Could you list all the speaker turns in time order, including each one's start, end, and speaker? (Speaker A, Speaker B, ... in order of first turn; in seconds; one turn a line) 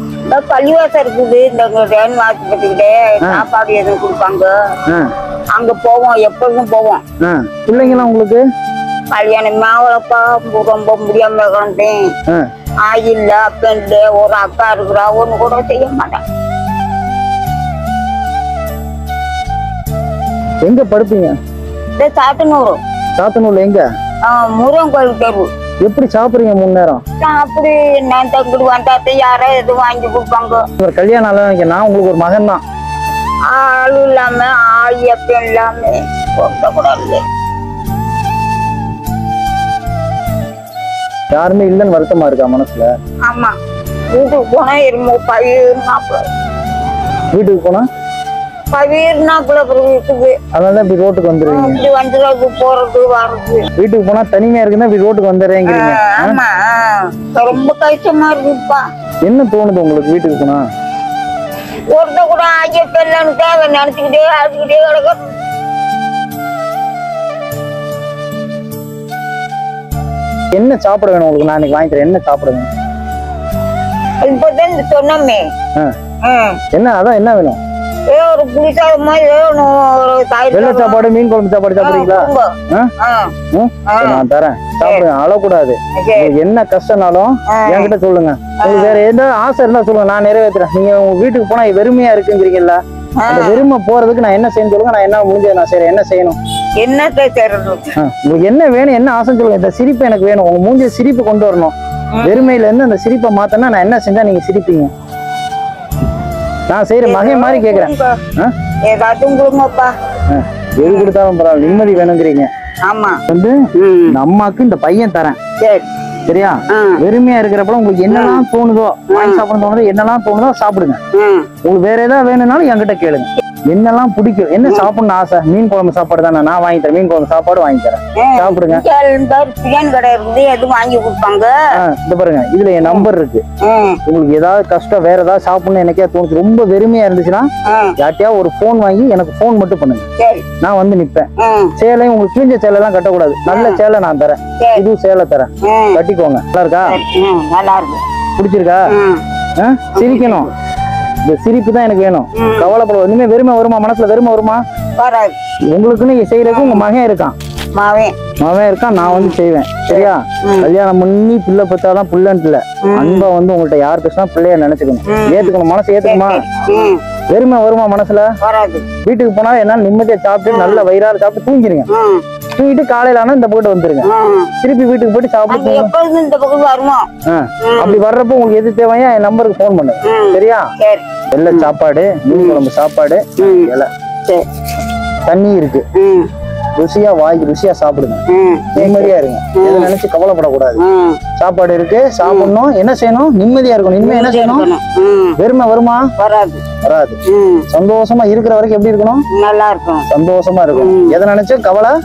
Speaker A: 0.3-4.5
Speaker A: 5.5-7.0
Speaker B: 7.2-8.4
Speaker A: 7.7-8.1
Speaker A: 9.1-12.1
Speaker A: 12.8-16.2
Speaker B: 20.6-21.3
Speaker A: 22.0-22.8
Speaker B: 23.2-23.8
Speaker A: 24.2-25.5
Speaker B: 25.8-27.0
Speaker A: 27.2-30.7
Speaker B: 30.8-32.6
Speaker A: 33.4-37.2
Speaker B: 41.3-42.9
Speaker A: 43.3-43.6
Speaker A: 44.1-46.3
Speaker B: 47.3-47.8
Speaker A: 48.7-50.4
Speaker B: 50.5-51.8
Speaker A: 51.4-53.7
Speaker B: 53.8-56.4
Speaker A: 55.6-58.8
Speaker B: 59.2-60.6
Speaker A: 61.9-65.3
Speaker B: 70.5-72.7
Speaker A: 74.2-75.5
Speaker A: 76.2-76.6
Speaker B: 76.7-77.6
Speaker A: 78.1-81.1
Speaker B: 80.5-82.9
Speaker A: 81.8-83.3
Speaker B: 83.5-96.4
Speaker A: 83.8-84.2
Speaker A: 86.0-86.3
Speaker A: 87.5-87.9
Speaker A: 88.6-89.0
Speaker A: 93.2-93.7
Speaker A: 96.8-97.9
Speaker B: 98.0-104.9
Speaker A: 102.1-102.6
Speaker B: 106.7-108.5
Speaker A: 107.0-108.2
Speaker A: 108.8-109.9
Speaker B: 110.3-112.5
Speaker A: 110.8-112.1
Speaker A: 112.8-113.2
Speaker B: 113.3-115.4
Speaker A: 113.7-114.2
Speaker A: 115.6-115.9
Speaker B: 116.3-121.0
Speaker A: 116.7-117.0
Speaker A: 118.1-118.4
Speaker A: 119.1-119.4
Speaker A: 121.1-121.5
Speaker B: 121.6-128.8
Speaker A: 124.6-124.9
Speaker A: 128.2-131.6
Speaker B: 131.7-133.4
Speaker A: 132.8-133.1
Speaker A: 133.6-134.0
Speaker B: 134.1-140.1
Speaker A: 137.7-137.9
Speaker A: 140.2-140.5
Speaker B: 140.6-147.0
Speaker A: 141.4-141.7
Speaker A: 143.5-143.8
Speaker A: 144.6-144.8
Speaker A: 145.6-146.0
Speaker A: 146.8-148.0
Speaker B: 148.4-148.9
Speaker A: 148.9-149.2
Speaker B: 149.6-150.5
Speaker A: 149.9-150.5
Speaker B: 151.3-154.6
Speaker A: 152.3-152.7
Speaker A: 155.0-155.4
Speaker B: 155.7-157.3
Speaker A: 156.4-156.9
Speaker A: 157.7-158.2
Speaker B: 158.4-166.4
Speaker A: 159.0-159.4
Speaker A: 159.9-160.7
Speaker A: 162.8-163.3
Speaker A: 165.1-167.0
Speaker B: 167.3-168.3
Speaker A: 168.4-168.9
Speaker B: 169.0-171.9
Speaker A: 170.5-170.8
Speaker A: 171.9-172.2
Speaker B: 172.6-174.1
Speaker A: 174.0-174.5
Speaker B: 174.6-175.9
Speaker A: 175.5-177.1
Speaker B: 177.2-180.7
Speaker A: 177.6-178.0
Speaker A: 180.0-181.7
Speaker B: 181.3-183.9
Speaker A: 182.3-182.6
Speaker A: 183.4-183.7
Speaker B: 185.2-185.8
Speaker A: 185.9-186.3
Speaker B: 186.8-188.2
Speaker A: 188.3-189.9
Speaker B: 188.7-190.8
Speaker A: 190.8-191.2
Speaker B: 191.4-194.7
Speaker A: 192.2-192.5
Speaker A: 194.0-195.4
Speaker B: 195.4-196.1
Speaker A: 196.2-196.6
Speaker B: 196.8-197.2
Speaker A: 197.3-197.7
Speaker B: 197.7-199.2
Speaker A: 199.3-200.1
Speaker B: 200.1-201.9
Speaker A: 200.7-201.2